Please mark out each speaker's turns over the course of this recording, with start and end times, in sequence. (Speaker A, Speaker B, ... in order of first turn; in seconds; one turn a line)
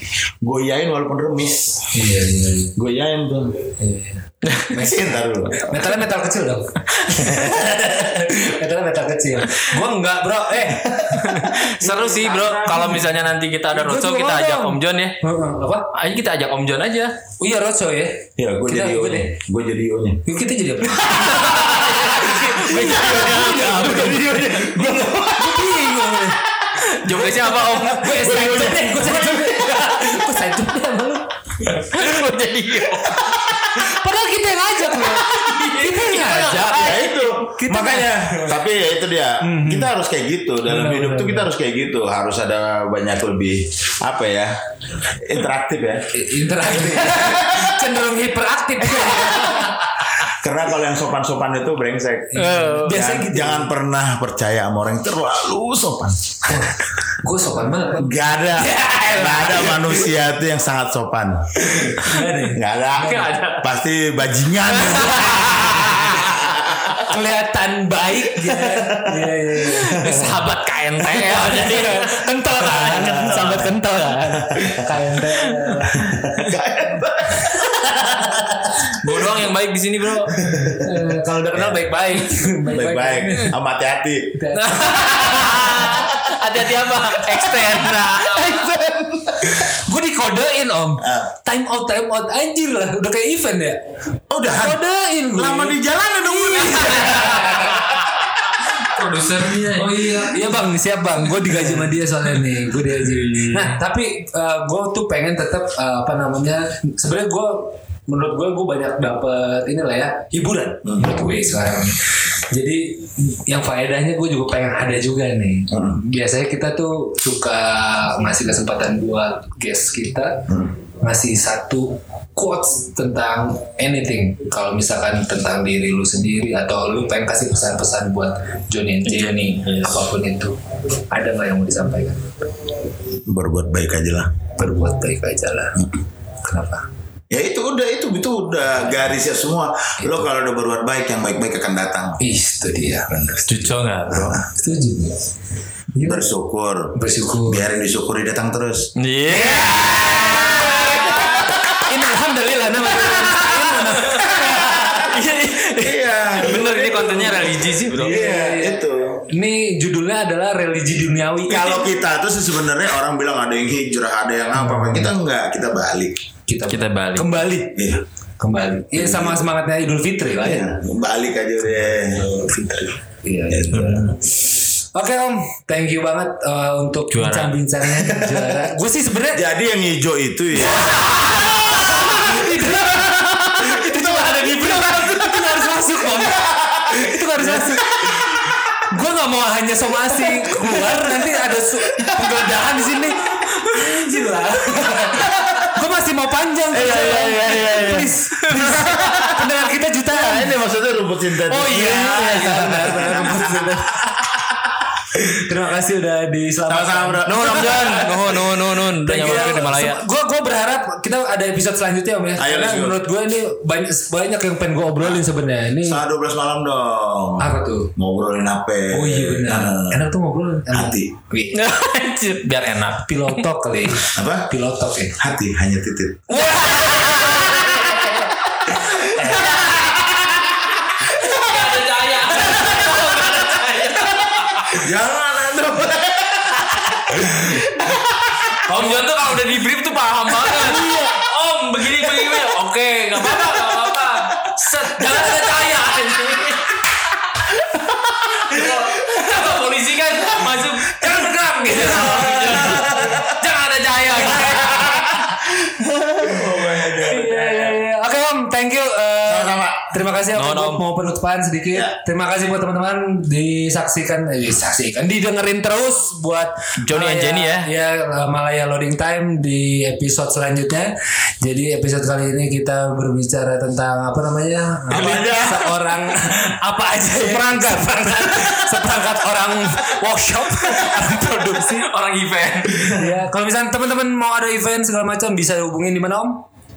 Speaker A: 0.4-1.9
Speaker B: 1.9-2.8
Speaker A: 2.7-3.7
Speaker B: 3.8-4.2
Speaker C: 4.4-4.8
Speaker A: 4.7-5.8
Speaker B: 5.5-13.1
Speaker C: 6.9-7.7
Speaker A: 7.1-8.4
Speaker A: 10.7-12.9
Speaker C: 11.1-15.2
Speaker B: 13.7-15.9
Speaker C: 15.9-17.1
Speaker B: 17.4-19.3
Speaker A: 18.4-20.2
Speaker B: 20.2-26.4
Speaker C: 21.0-24.8
Speaker A: 22.8-25.8
Speaker C: 26.8-28.1
Speaker B: 27.1-31.8
Speaker A: 28.1-29.9
Speaker C: 31.7-33.9
Speaker B: 33.7-38.6
Speaker C: 34.9-37.2
Speaker A: 36.6-46.1
Speaker B: 39.4-39.9
Speaker B: 40.6-41.5
Speaker B: 46.1-50.1
Speaker A: 46.7-47.9
Speaker A: 48.9-56.2
Speaker B: 52.3-53.7
Speaker C: 52.4-53.0
Speaker B: 56.5-60.1
Speaker A: 58.0-67.0
Speaker B: 61.7-63.3
Speaker C: 63.0-63.7
Speaker C: 64.7-66.2
Speaker B: 65.2-65.6
Speaker B: 66.9-70.2
Speaker A: 68.6-70.3
Speaker C: 69.7-74.4
Speaker B: 71.1-76.2
Speaker A: 72.9-73.8
Speaker A: 74.3-74.9
Speaker C: 75.3-75.8
Speaker A: 75.9-78.6
Speaker B: 77.4-78.4
Speaker C: 78.8-80.3
Speaker A: 80.3-81.8
Speaker B: 80.8-83.5
Speaker A: 82.6-84.4
Speaker B: 84.3-85.7
Speaker C: 84.5-88.7
Speaker A: 85.3-86.4
Speaker A: 88.0-89.7
Speaker B: 89.5-93.8
Speaker A: 91.0-91.3
Speaker A: 94.3-97.9
Speaker B: 94.4-98.1
Speaker C: 96.8-100.3
Speaker B: 99.7-130.6
Speaker C: 102.9-103.8
Speaker A: 110.8-111.1
Speaker A: 115.7-116.0
Speaker C: 129.1-130.1
Speaker B: 131.1-132.4
Speaker A: 133.2-134.3
Speaker B: 134.6-135.9
Speaker B: 136.4-136.8
Speaker A: 137.3-142.2
Speaker B: 140.0-140.3
Speaker B: 142.2-143.7
Speaker C: 143.5-144.4
Speaker A: 144.1-144.4
Speaker B: 144.4-145.2
Speaker B: 145.9-146.3
Speaker A: 146.0-151.7
Speaker B: 146.9-147.7
Speaker C: 149.0-151.4
Speaker B: 149.8-155.1
Speaker C: 153.3-158.2
Speaker A: 153.5-155.2
Speaker A: 155.8-159.2
Speaker B: 158.0-161.8
Speaker A: 161.4-166.2
Speaker B: 164.5-165.1
Speaker B: 166.5-167.8
Speaker C: 166.7-167.4
Speaker A: 167.7-168.0
Speaker B: 168.4-170.7
Speaker A: 168.9-169.4
Speaker A: 170.4-172.3
Speaker B: 172.1-179.4
Speaker A: 173.5-174.2
Speaker C: 177.1-177.6
Speaker A: 177.9-178.7
Speaker A: 179.3-182.5
Speaker B: 180.6-188.2
Speaker A: 183.8-185.1
Speaker C: 184.2-185.0
Speaker A: 186.2-188.4
Speaker B: 188.9-200.6
Speaker A: 190.3-191.0
Speaker A: 191.9-192.4
Speaker A: 196.7-198.1
Speaker C: 198.4-198.8
Speaker A: 198.7-204.4
Speaker B: 201.4-204.2
Speaker C: 202.2-203.1
Speaker B: 205.2-208.3
Speaker A: 206.7-208.4
Speaker C: 207.2-210.0
Speaker B: 209.0-216.0
Speaker A: 212.4-213.0
Speaker A: 215.8-220.1
Speaker B: 217.4-217.9
Speaker B: 218.9-221.6
Speaker A: 220.7-221.1
Speaker C: 221.5-223.4
Speaker B: 222.9-225.2
Speaker A: 224.1-224.5
Speaker A: 225.1-226.5
Speaker C: 226.3-234.8
Speaker B: 226.3-228.1
Speaker A: 228.8-230.1
Speaker B: 228.9-230.0
Speaker A: 234.7-238.9
Speaker C: 238.6-247.2
Speaker B: 240.5-241.3
Speaker B: 243.2-244.5
Speaker A: 247.7-248.7
Speaker C: 248.4-255.2
Speaker B: 251.0-252.9
Speaker A: 251.7-253.3
Speaker A: 254.3-257.8
Speaker B: 257.0-281.9
Speaker A: 259.2-259.9
Speaker C: 260.3-260.8
Speaker C: 266.8-267.7
Speaker A: 274.9-275.7
Speaker C: 274.9-275.6
Speaker C: 277.2-277.5
Speaker C: 278.2-278.6
Speaker C: 280.7-282.9
Speaker B: 282.9-286.4